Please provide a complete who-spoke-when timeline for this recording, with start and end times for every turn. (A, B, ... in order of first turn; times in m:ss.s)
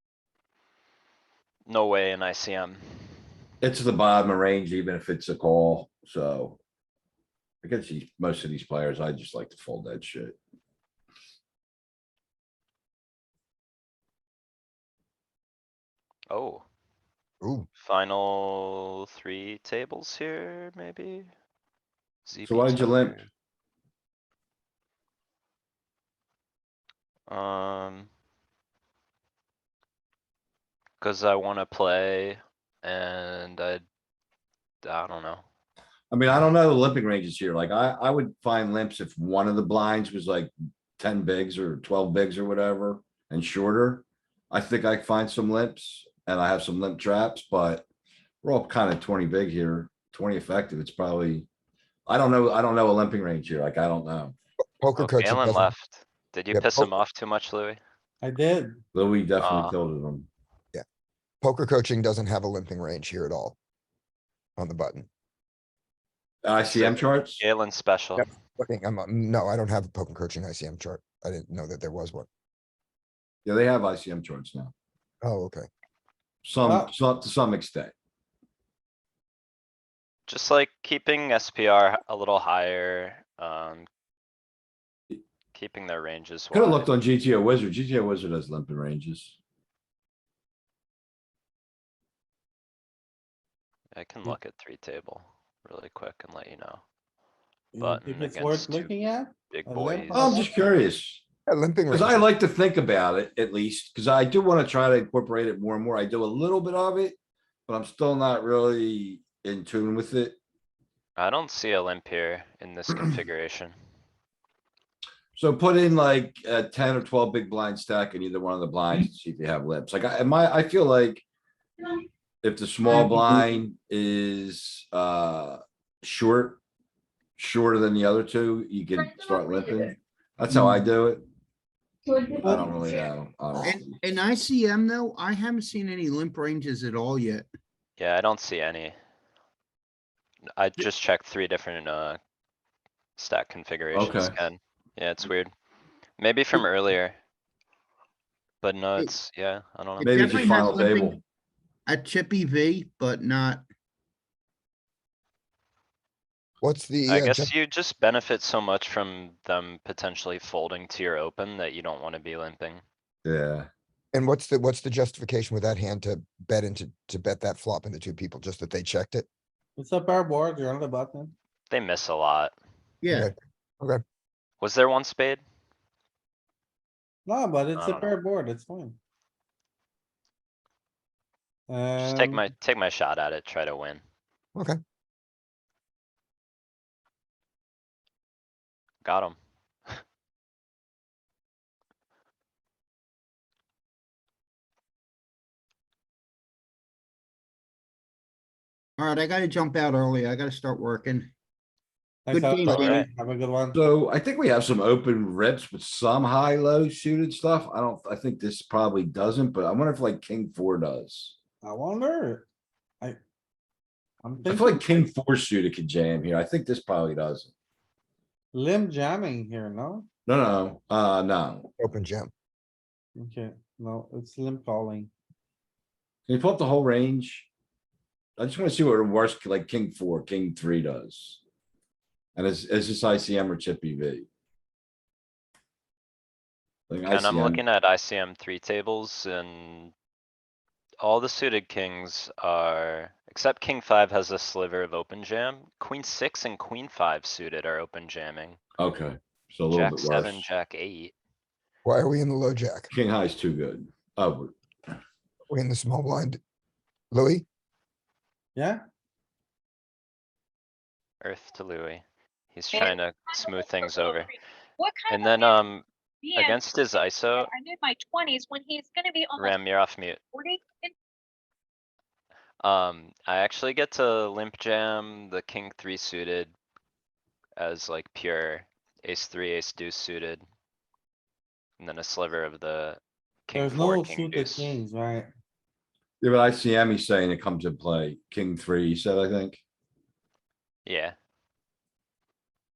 0:01.6-0:03.1 A
0:03.6-0:06.6 B
0:07.6-0:10.4 B
0:16.3-0:16.6 A
0:17.4-0:17.7 C
0:17.8-0:21.3 A
0:22.2-0:23.3 A
0:22.4-0:23.2 B
0:27.3-0:28.1 A
0:31.0-0:33.8 A
0:34.8-0:35.4 A
0:36.1-0:47.8 B
0:48.4-0:51.5 B
0:52.1-0:54.3 B
0:54.8-0:55.7 C
0:55.0-0:57.8 A
0:56.5-0:57.0 C
0:58.2-0:58.8 D
0:58.9-1:00.3 B
0:59.4-0:59.7 A
1:01.4-1:03.6 C
1:04.6-1:05.1 C
1:06.4-1:07.4 B
1:06.7-1:08.3 A
1:08.2-1:12.3 C
1:13.4-1:14.7 B
1:15.2-1:15.7 C
1:16.4-1:17.9 B
1:16.6-1:16.9 D
1:20.3-1:23.9 A
1:25.5-1:26.9 A
1:26.5-1:29.4 B
1:34.0-1:36.8 A
1:37.7-1:40.7 D
1:37.8-1:38.9 A
1:39.5-1:40.4 A
1:40.1-1:41.2 B
1:41.5-1:42.3 C
1:41.9-1:47.2 B
1:47.7-1:50.4 B
1:51.2-1:53.7 A
1:55.3-2:01.2 B
2:02.4-2:06.6 B
2:07.4-2:11.2 B
2:12.1-2:12.6 E
2:12.4-2:14.0 B
2:13.6-2:17.4 F
2:18.0-2:18.9 A
2:20.6-2:22.2 A
2:23.2-2:25.5 A
2:23.9-2:24.3 B
2:26.2-2:27.2 A
2:28.6-2:30.3 A
2:30.0-2:31.2 F
2:30.0-2:31.2 B
2:31.8-2:33.6 F
2:36.6-2:37.5 C
2:37.1-2:42.8 A
2:43.2-2:43.7 B
2:44.1-2:49.3 C
2:49.8-2:51.3 D
2:51.7-2:52.5 A
2:53.0-2:53.3 F
2:53.1-2:54.0 C
2:54.6-2:55.4 A
2:57.2-2:59.0 D
2:57.7-2:58.2 A
3:01.7-3:02.5 D
3:02.0-3:04.0 A
3:09.0-3:09.4 A
3:19.0-3:21.3 F
3:22.3-3:23.8 D
3:22.3-3:23.0 F
3:23.7-3:31.3 B
3:31.6-3:32.4 D
3:34.2-3:35.0 D
3:34.4-3:37.5 B
3:38.5-3:40.1 D
3:40.3-3:41.7 B
3:41.8-3:42.3 C
3:43.2-3:45.1 D
3:46.3-3:47.5 B
3:48.4-3:51.4 B
3:52.4-3:54.3 B
3:56.9-3:57.6 B
3:57.0-3:59.9 A
4:01.0-4:08.6 A
4:08.8-4:10.4 B
4:09.7-4:11.1 A
4:11.8-4:12.9 C
4:12.9-4:14.5 B
4:15.5-4:16.4 C
4:17.1-4:17.4 C
4:18.6-4:18.8 D
4:21.2-4:24.3 A
4:22.7-4:24.3 E
4:24.8-4:25.7 E
4:25.1-4:25.8 A
4:26.2-4:29.6 E
4:26.4-4:27.5 A
4:29.4-4:30.2 A
4:30.3-4:30.9 E
4:32.6-4:36.5 A
4:37.6-4:40.4 A
4:41.8-4:44.8 A
4:43.5-4:45.3 D
4:46.2-4:49.6 B
4:50.8-4:51.1 A